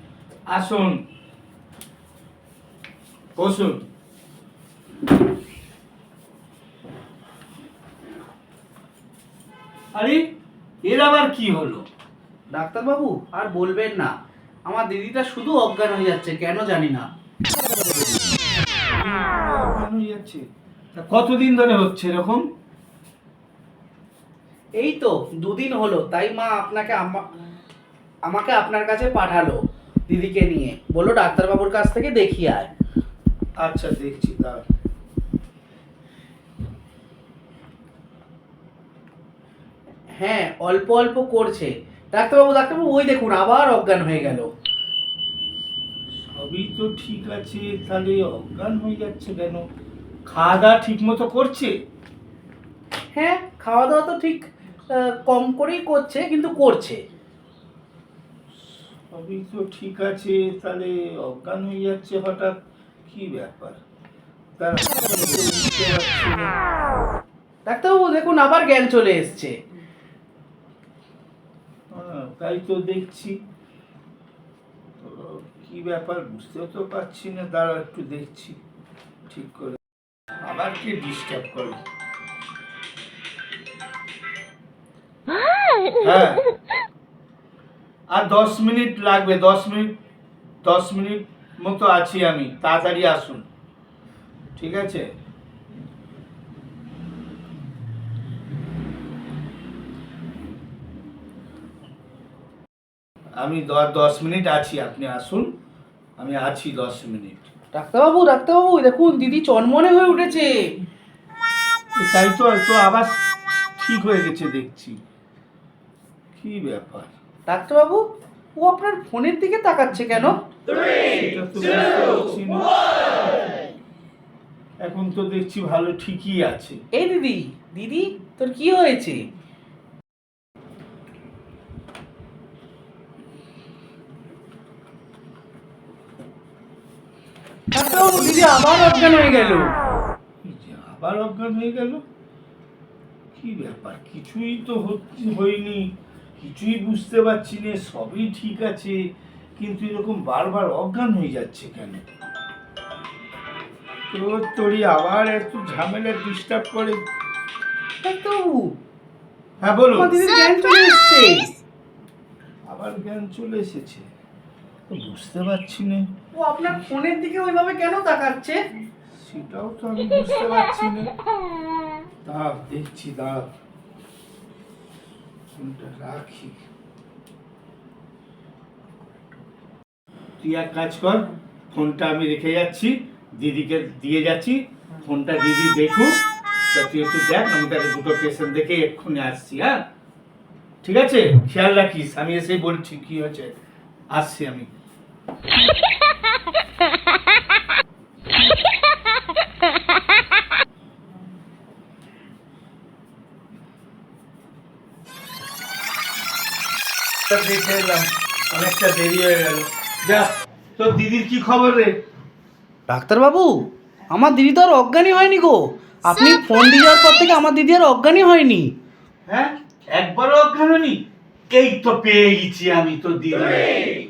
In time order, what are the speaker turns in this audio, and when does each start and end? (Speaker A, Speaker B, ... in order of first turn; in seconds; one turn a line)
Speaker A: 0.5-1.0
Speaker A: 3.4-3.8
Speaker A: 9.9-10.2
Speaker A: 10.8-11.8
Speaker B: 12.5-14.1
Speaker B: 14.7-17.1
Speaker A: 18.9-22.5
Speaker B: 24.8-27.3
Speaker B: 28.3-32.7
Speaker A: 33.6-34.6
Speaker B: 40.1-44.5
Speaker A: 46.2-49.6
Speaker A: 50.3-51.7
Speaker B: 53.1-57.0
Speaker A: 58.6-63.8
Speaker A: 64.6-66.5
Speaker B: 67.7-69.5
Speaker A: 71.9-73.4
Speaker A: 75.0-78.6
Speaker A: 79.3-79.8
Speaker A: 80.4-81.8
Speaker A: 86.0-86.4
Speaker A: 88.1-89.9
Speaker A: 90.6-93.5
Speaker A: 94.6-95.1
Speaker A: 103.4-105.5
Speaker A: 106.2-107.5
Speaker B: 107.7-110.5
Speaker A: 112.0-115.0
Speaker A: 116.4-117.1
Speaker B: 117.5-118.0
Speaker B: 118.6-120.4
Speaker A: 121.0-122.7
Speaker A: 124.8-126.8
Speaker B: 127.0-129.2
Speaker B: 137.7-139.7
Speaker A: 140.4-142.0
Speaker A: 143.3-149.0
Speaker A: 149.6-152.0
Speaker A: 154.1-157.0
Speaker B: 158.0-158.8
Speaker A: 159.6-160.2
Speaker B: 159.9-161.5
Speaker A: 162.7-164.1
Speaker A: 164.9-166.1
Speaker B: 166.3-168.6
Speaker A: 169.2-171.1
Speaker A: 172.2-173.5
Speaker A: 175.6-176.6
Speaker A: 180.4-186.2
Speaker A: 186.7-189.8
Speaker A: 190.8-193.6
Speaker A: 194.1-194.7
Speaker A: 207.3-212.0
Speaker B: 212.9-218.7
Speaker A: 219.3-223.9